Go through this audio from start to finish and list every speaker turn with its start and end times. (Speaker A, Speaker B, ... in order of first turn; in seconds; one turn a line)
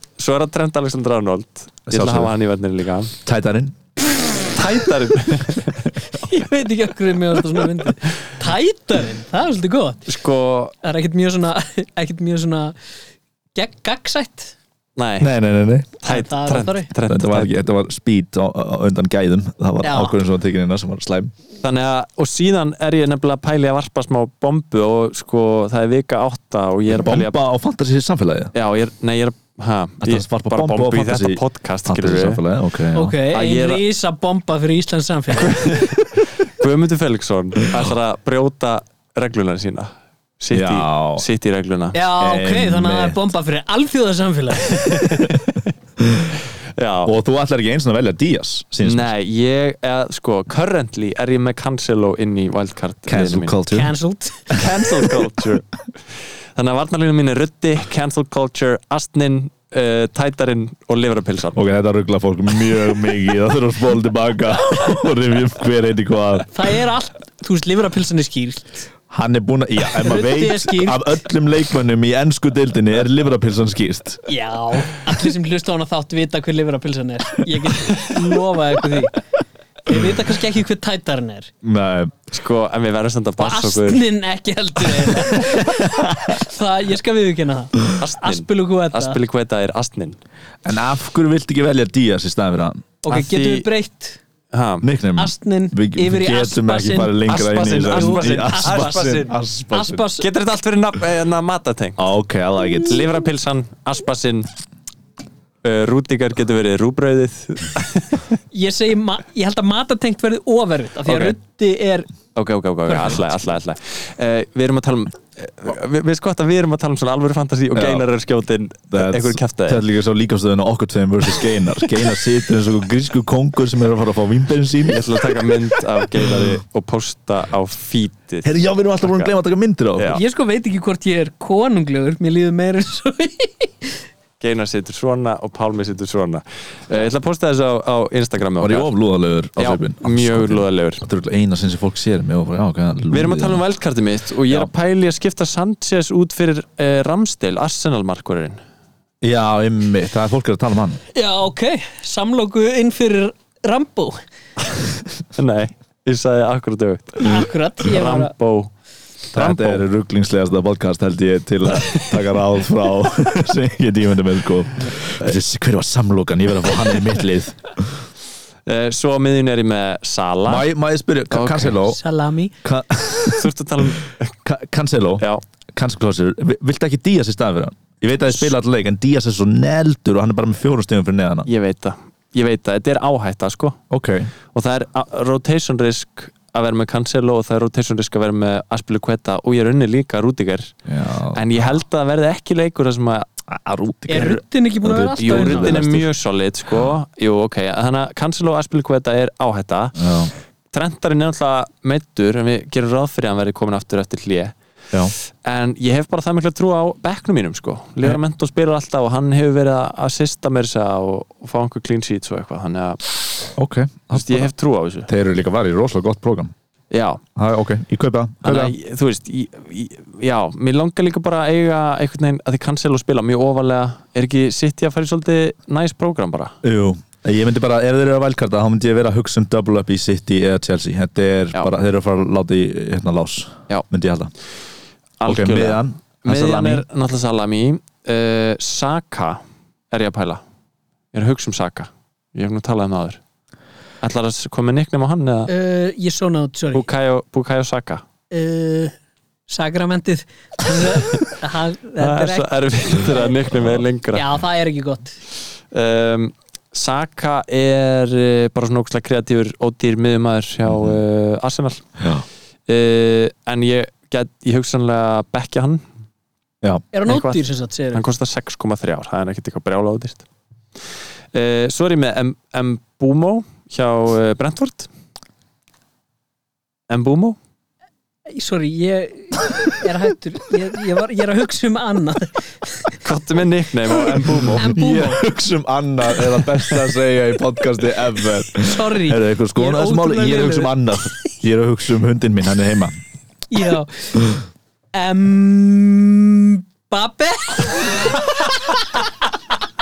Speaker A: 0.2-3.1
Speaker B: 1.9-2.3
Speaker B: 3.2-3.8
Speaker A: 4.4-5.8
Speaker C: 6.1-10.1
Speaker A: 10.1-10.8
Speaker C: 10.8-12.8
Speaker C: 13.6-14.6
Speaker A: 15.0-15.3
Speaker B: 15.2-15.9
Speaker C: 16.0-16.9
Speaker A: 16.0-17.6
Speaker B: 17.1-21.3
Speaker C: 19.8-20.1
Speaker A: 21.6-27.4
Speaker B: 26.9-28.5
Speaker A: 28.5-32.4
Speaker B: 30.0-33.2
Speaker C: 32.9-35.9
Speaker A: 33.3-33.8
Speaker A: 35.4-42.0
Speaker B: 40.5-41.3
Speaker C: 41.9-45.2
Speaker B: 42.2-43.2
Speaker A: 44.8-45.5
Speaker B: 46.0-46.3
Speaker A: 46.8-47.1
Speaker B: 47.0-49.1
Speaker A: 48.8-53.6
Speaker B: 53.1-53.9
Speaker C: 53.7-54.5
Speaker A: 54.5-55.7
Speaker A: 56.5-61.6
Speaker B: 61.6-66.5
Speaker C: 66.5-68.8
Speaker B: 69.1-74.2
Speaker C: 70.0-71.0
Speaker C: 74.3-79.2
Speaker C: 79.8-81.5
Speaker B: 81.6-82.1
Speaker A: 82.3-84.0
Speaker C: 83.4-89.2
Speaker B: 85.7-86.4
Speaker A: 88.0-90.2
Speaker B: 90.7-92.9
Speaker C: 93.0-94.2
Speaker A: 93.1-93.7
Speaker A: 94.5-94.9
Speaker B: 94.8-100.0
Speaker C: 95.2-100.3
Speaker A: 97.3-99.4
Speaker A: 100.2-102.0
Speaker B: 102.0-103.0
Speaker A: 102.9-104.5
Speaker A: 105.6-108.2
Speaker C: 108.5-112.1
Speaker A: 111.1-111.3
Speaker A: 112.3-119.8
Speaker C: 112.9-113.2
Speaker B: 117.7-118.0
Speaker B: 118.9-125.0
Speaker A: 124.8-128.5
Speaker B: 126.2-126.5
Speaker B: 128.4-130.1
Speaker A: 129.0-129.3
Speaker A: 130.0-130.2
Speaker C: 130.1-134.0
Speaker A: 134.4-138.9
Speaker B: 138.6-143.6
Speaker A: 139.6-141.0
Speaker A: 143.1-148.6
Speaker B: 149.2-151.0
Speaker C: 151.1-154.2
Speaker A: 155.3-158.7
Speaker C: 157.2-158.3
Speaker A: 159.3-159.8
Speaker B: 159.3-167.9
Speaker A: 161.8-162.1
Speaker A: 168.7-170.7
Speaker B: 170.5-172.0
Speaker A: 171.3-171.8
Speaker C: 171.8-172.5
Speaker B: 172.6-173.9
Speaker A: 173.3-174.3
Speaker B: 174.4-181.5
Speaker A: 181.5-183.8
Speaker B: 183.9-184.3
Speaker A: 184.5-190.8
Speaker B: 190.9-191.8
Speaker A: 191.3-193.3
Speaker B: 193.5-196.1
Speaker C: 194.1-195.8
Speaker A: 195.2-200.0
Speaker B: 200.0-200.3
Speaker A: 200.7-204.6
Speaker A: 205.4-213.0
Speaker B: 213.6-214.5
Speaker A: 214.1-215.1
Speaker B: 215.1-216.5
Speaker A: 216.9-217.2
Speaker B: 217.4-218.8
Speaker A: 218.4-226.5
Speaker B: 226.6-234.3
Speaker A: 235.2-240.4
Speaker B: 235.2-236.9
Speaker A: 241.1-243.2
Speaker A: 244.0-245.5
Speaker C: 245.5-246.9
Speaker A: 246.7-248.0
Speaker C: 248.3-248.9
Speaker C: 249.5-253.3
Speaker A: 252.0-254.3
Speaker C: 254.1-255.2
Speaker A: 255.7-261.9
Speaker B: 260.7-261.0
Speaker B: 262.0-262.2
Speaker A: 262.7-265.8
Speaker C: 266.9-268.0
Speaker A: 267.1-267.4
Speaker A: 267.9-270.2
Speaker A: 271.3-274.9
Speaker A: 276.9-277.4
Speaker C: 278.3-282.9
Speaker A: 283.0-284.7
Speaker B: 284.2-292.9
Speaker C: 284.5-285.2
Speaker C: 288.6-290.7
Speaker C: 293.5-294.3
Speaker C: 294.9-298.2